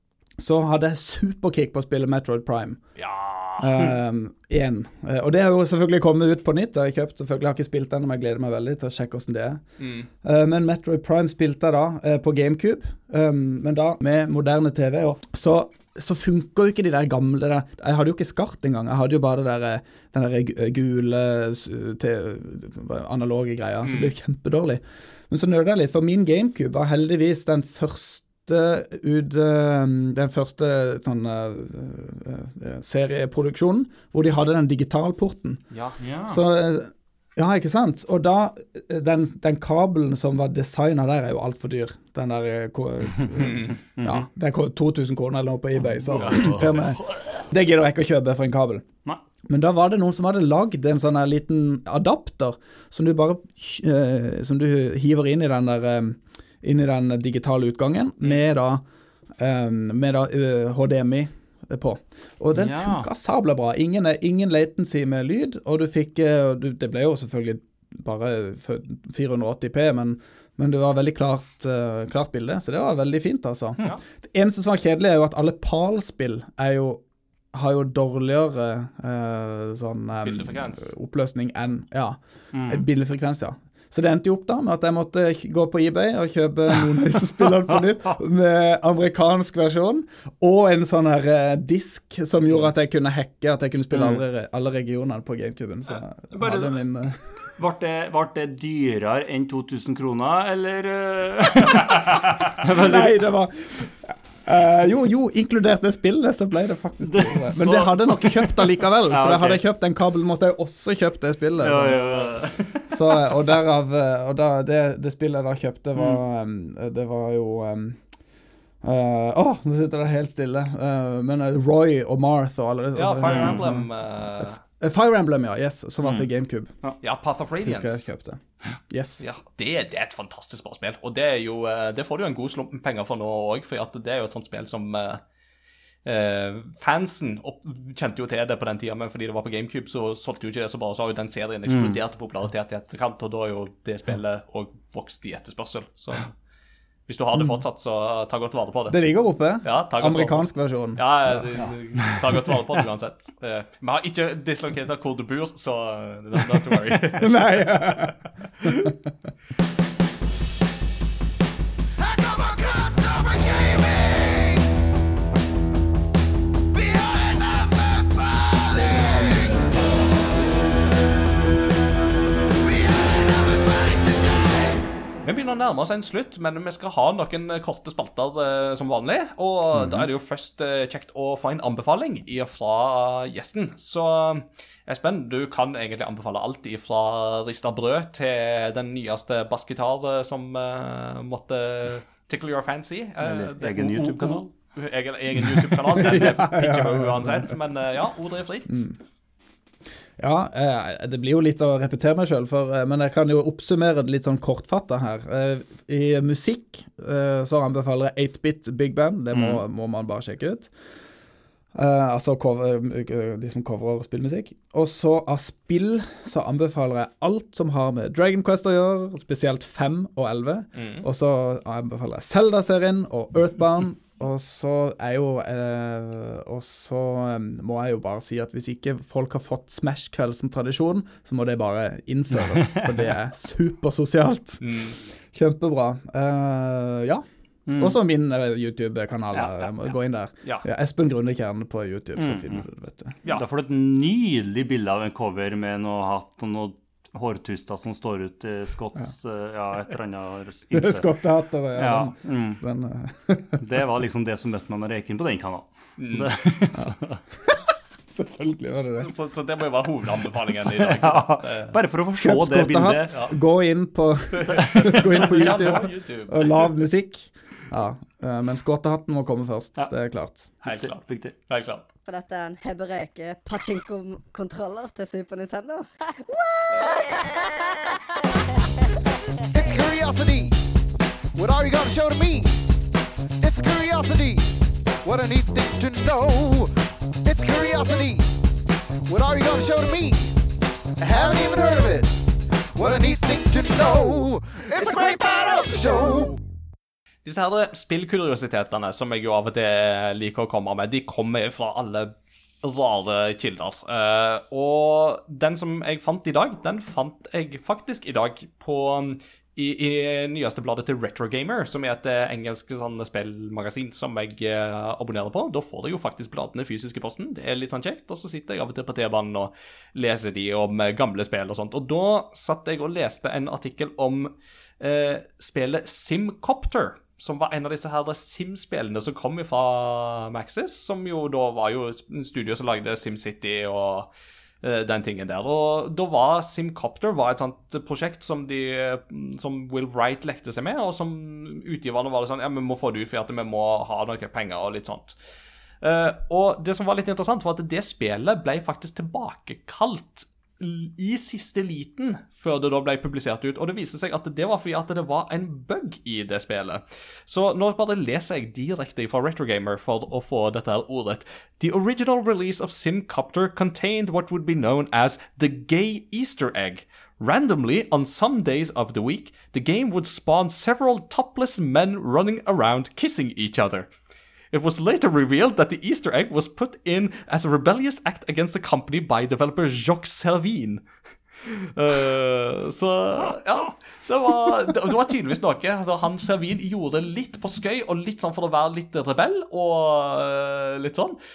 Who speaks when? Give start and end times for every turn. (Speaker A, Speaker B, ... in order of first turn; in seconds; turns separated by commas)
Speaker A: 0.4-2.8, Speaker B: 3.0-4.0, Speaker A: 3.6-9.6, Speaker B: 9.8-10.1, Speaker A: 10.2-35.6, Speaker B: 23.8-24.1, Speaker B: 35.7-36.0, Speaker C: 36.0-36.4, Speaker A: 36.3-48.8, Speaker B: 43.3-43.8, Speaker C: 44.0-44.2, Speaker C: 46.0-47.1, Speaker B: 46.2-46.8, Speaker A: 49.5-58.8, Speaker A: 59.4-77.0, Speaker C: 62.5-63.1, Speaker A: 77.5-97.2, Speaker B: 80.2-80.9, Speaker C: 82.5-82.8, Speaker C: 93.9-94.2, Speaker C: 96.3-96.8, Speaker C: 97.4-103.2, Speaker A: 102.6-112.2, Speaker C: 107.0-109.6, Speaker C: 111.6-113.2, Speaker A: 112.9-118.0, Speaker A: 118.8-126.7, Speaker B: 122.9-124.6, Speaker C: 123.2-123.6, Speaker B: 127.0-128.1, Speaker A: 127.6-129.2, Speaker B: 129.2-135.2, Speaker B: 136.0-146.3, Speaker C: 141.7-142.0, Speaker B: 147.1-149.0, Speaker A: 148.9-151.7, Speaker B: 149.6-158.9, Speaker A: 157.2-158.9, Speaker B: 168.8-169.2, Speaker B: 175.2-198.9, Speaker C: 193.2-194.4, Speaker A: 195.9-197.5, Speaker A: 198.7-198.9, Speaker A: 200.2-210.7, Speaker C: 209.3-209.6, Speaker A: 211.7-234.6, Speaker B: 220.8-221.0, Speaker B: 234.6-235.0, Speaker A: 235.3-237.2, Speaker C: 237.7-238.0, Speaker A: 237.8-243.2, Speaker C: 239.3-239.7, Speaker C: 242.2-242.6, Speaker C: 243.3-251.1, Speaker A: 250.7-253.6, Speaker C: 251.7-252.6, Speaker C: 253.6-257.2, Speaker B: 256.0-256.3, Speaker A: 257.4-259.1, Speaker B: 258.9-261.8, Speaker C: 260.5-263.2, Speaker A: 262.2-270.5, Speaker B: 264.4-266.6, Speaker C: 270.6-271.3, Speaker B: 270.6-271.9, Speaker D: 272.1-277.5, Speaker E: 279.5-280.6, Speaker E: 281.3-282.6, Speaker E: 283.4-288.3, Speaker E: 289.1-290.4, Speaker E: 291.0-296.4, Speaker B: 297.2-334.1, Speaker B: 334.6-345.2, Speaker B: 345.8-373.9, Speaker B: 374.5-380.8, Speaker B: 381.4-391.2